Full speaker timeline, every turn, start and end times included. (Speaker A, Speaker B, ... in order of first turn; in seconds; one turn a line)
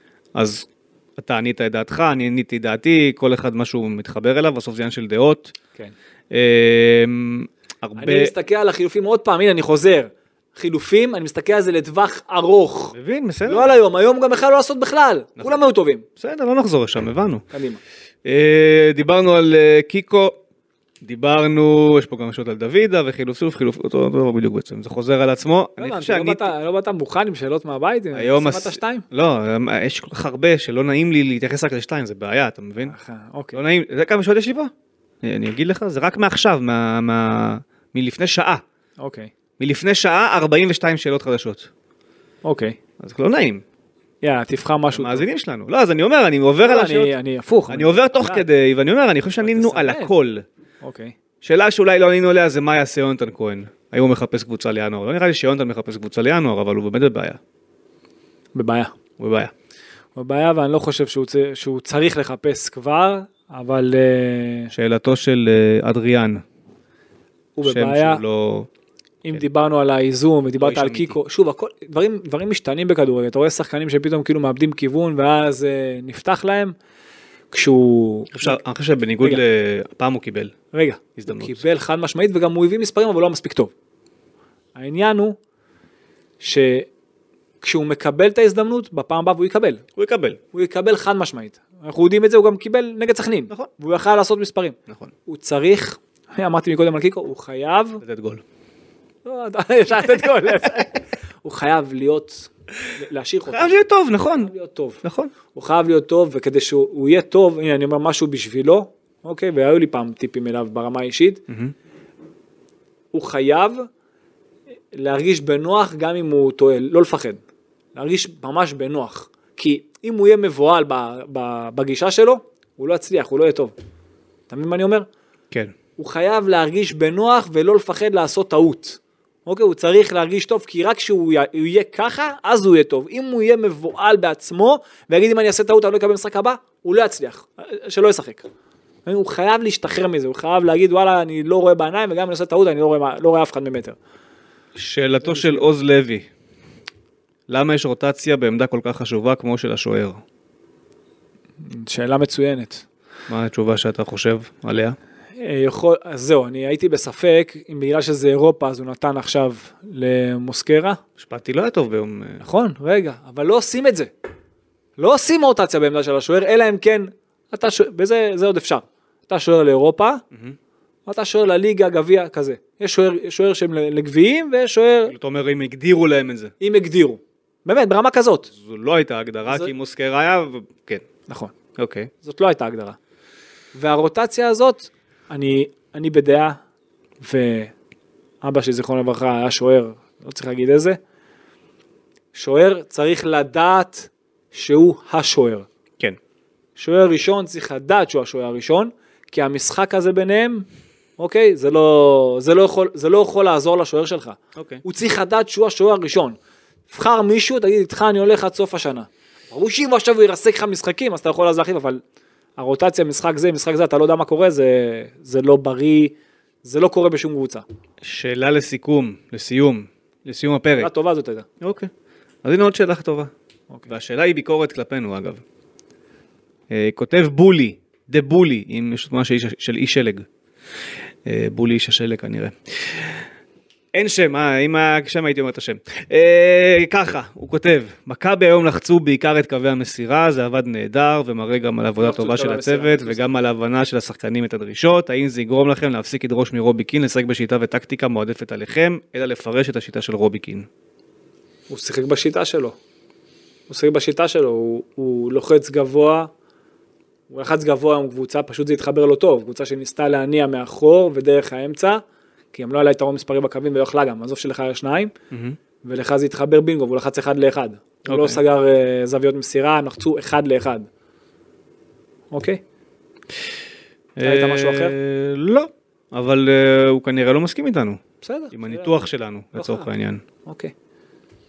Speaker A: 0.3-5.5
Speaker A: 6.3-8.3
Speaker B: 8.0-16.1
Speaker A: 12.9-13.7
Speaker A: 16.2-17.4
Speaker B: 17.5-17.8
Speaker A: 18.2-20.4
Speaker A: 21.0-26.5
Speaker B: 25.8-29.0
Speaker A: 28.1-32.9
Speaker B: 32.8-33.6
Speaker A: 33.5-34.7
Speaker A: 35.2-38.6
Speaker B: 39.0-39.3
Speaker A: 39.6-41.7
Speaker B: 42.4-42.8
Speaker A: 43.0-43.6
Speaker B: 44.2-45.3
Speaker A: 44.9-47.1
Speaker B: 46.6-48.5
Speaker A: 47.7-50.4
Speaker B: 49.4-50.1
Speaker B: 50.8-51.1
Speaker A: 51.4-57.4
Speaker B: 58.5-58.9
Speaker A: 59.2-59.5
Speaker B: 60.1-64.7
Speaker A: 64.7-66.4
Speaker B: 67.5-68.2
Speaker A: 67.6-68.7
Speaker B: 69.2-76.7
Speaker A: 70.6-71.2
Speaker B: 77.5-78.6
Speaker A: 78.3-80.5
Speaker B: 80.7-83.7
Speaker A: 81.2-81.6
Speaker B: 84.8-85.4
Speaker B: 86.4-86.9
Speaker B: 87.6-89.8
Speaker A: 90.0-90.4
Speaker B: 90.5-98.0
Speaker A: 98.0-98.4
Speaker B: 99.2-103.7
Speaker A: 103.5-104.5
Speaker B: 104.4-111.4
Speaker A: 105.0-105.3
Speaker A: 111.5-111.7
Speaker B: 113.1-113.9
Speaker B: 114.9-117.4
Speaker B: 117.9-123.7
Speaker B: 124.5-125.1
Speaker B: 126.0-138.5
Speaker B: 139.0-144.0
Speaker A: 144.7-146.3
Speaker B: 145.2-145.7
Speaker A: 147.5-150.2
Speaker B: 151.6-152.8
Speaker A: 153.3-154.9
Speaker B: 155.4-161.0
Speaker A: 161.2-162.4
Speaker B: 162.4-164.1
Speaker B: 165.0-170.2
Speaker B: 171.1-175.1
Speaker A: 175.1-176.5
Speaker B: 176.6-178.5
Speaker A: 178.5-181.0
Speaker B: 181.3-181.5
Speaker A: 181.8-182.1
Speaker B: 182.2-183.0
Speaker B: 183.7-186.6
Speaker B: 187.2-187.7
Speaker B: 188.4-191.0
Speaker B: 192.3-195.7
Speaker B: 196.8-200.7
Speaker B: 201.2-206.4
Speaker A: 204.6-204.8
Speaker B: 206.9-212.0
Speaker B: 212.6-217.6
Speaker A: 218.0-220.9
Speaker B: 220.8-221.4
Speaker A: 221.6-221.9
Speaker A: 222.4-223.3
Speaker A: 223.9-225.4
Speaker A: 226.7-230.2
Speaker A: 231.2-233.2
Speaker A: 233.9-250.7
Speaker B: 242.0-243.2
Speaker B: 251.7-252.8
Speaker B: 253.7-256.3
Speaker B: 257.3-262.0
Speaker B: 262.5-265.1
Speaker A: 265.3-265.6
Speaker B: 265.8-270.9
Speaker A: 268.1-268.4
Speaker B: 272.3-272.6
Speaker A: 274.1-280.2
Speaker B: 274.2-274.9
Speaker B: 278.2-278.9
Speaker B: 279.5-279.9
Speaker B: 280.4-280.7